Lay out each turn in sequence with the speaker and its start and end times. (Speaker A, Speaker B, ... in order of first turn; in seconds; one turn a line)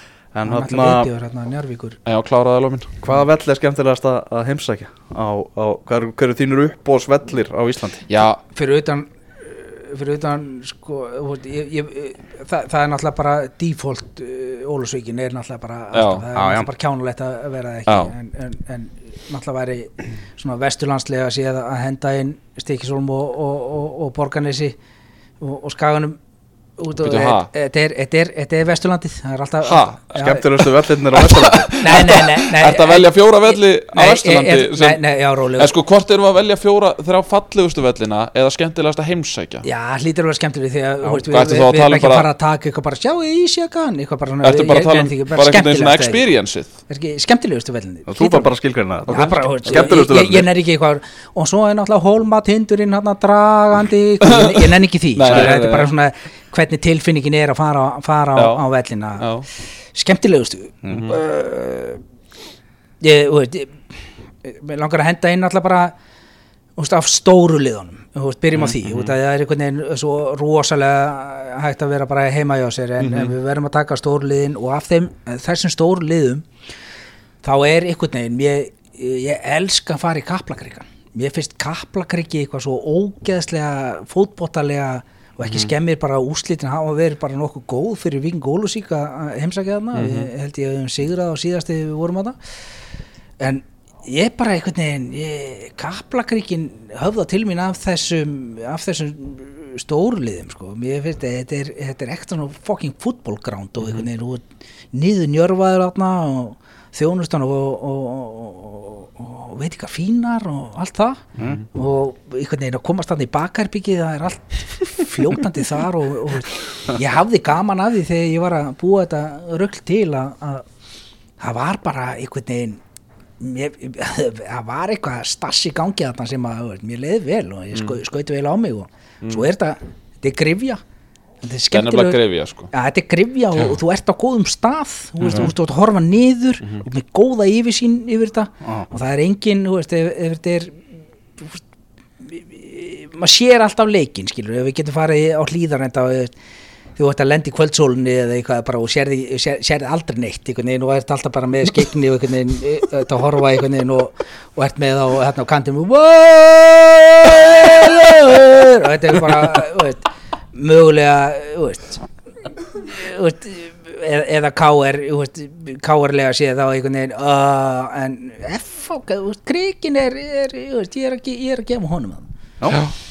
Speaker A: 0.3-1.1
Speaker B: 0.5-2.0
Speaker C: 2.1-3.0
Speaker A: 3.0-8.1
Speaker C: 8.1-8.4
Speaker B: 8.5-24.8
Speaker C: 15.9-16.2
Speaker A: 16.4-16.7
Speaker C: 17.9-18.1
Speaker B: 25.4-26.2
Speaker B: 26.8-30.4
Speaker C: 27.0-27.5
Speaker C: 29.7-35.0
Speaker A: 30.2-31.7
Speaker B: 31.8-35.7
Speaker C: 35.6-39.6
Speaker B: 39.6-46.2
Speaker C: 41.3-42.3
Speaker C: 44.4-46.7
Speaker B: 46.9-48.5
Speaker A: 48.1-50.5
Speaker C: 49.1-49.9
Speaker B: 49.1-59.3
Speaker C: 54.3-54.6
Speaker C: 55.1-55.9
Speaker A: 55.3-55.6
Speaker C: 58.4-58.6
Speaker C: 59.2-59.5
Speaker B: 59.9-62.0
Speaker A: 60.8-61.1
Speaker C: 60.9-61.2
Speaker B: 63.0-63.9
Speaker B: 64.4-66.0
Speaker B: 66.8-76.5
Speaker C: 68.8-69.2
Speaker C: 73.0-73.3
Speaker B: 77.4-92.4
Speaker C: 85.4-85.7
Speaker C: 89.9-90.3
Speaker B: 93.4-120.7
Speaker B: 121.4-122.8
Speaker B: 123.4-130.8
Speaker B: 131.4-132.2
Speaker C: 131.7-132.7
Speaker B: 132.7-140.8
Speaker C: 135.2-135.5
Speaker B: 142.2-146.3
Speaker B: 147.0-162.0
Speaker B: 162.7-172.3
Speaker C: 172.7-172.9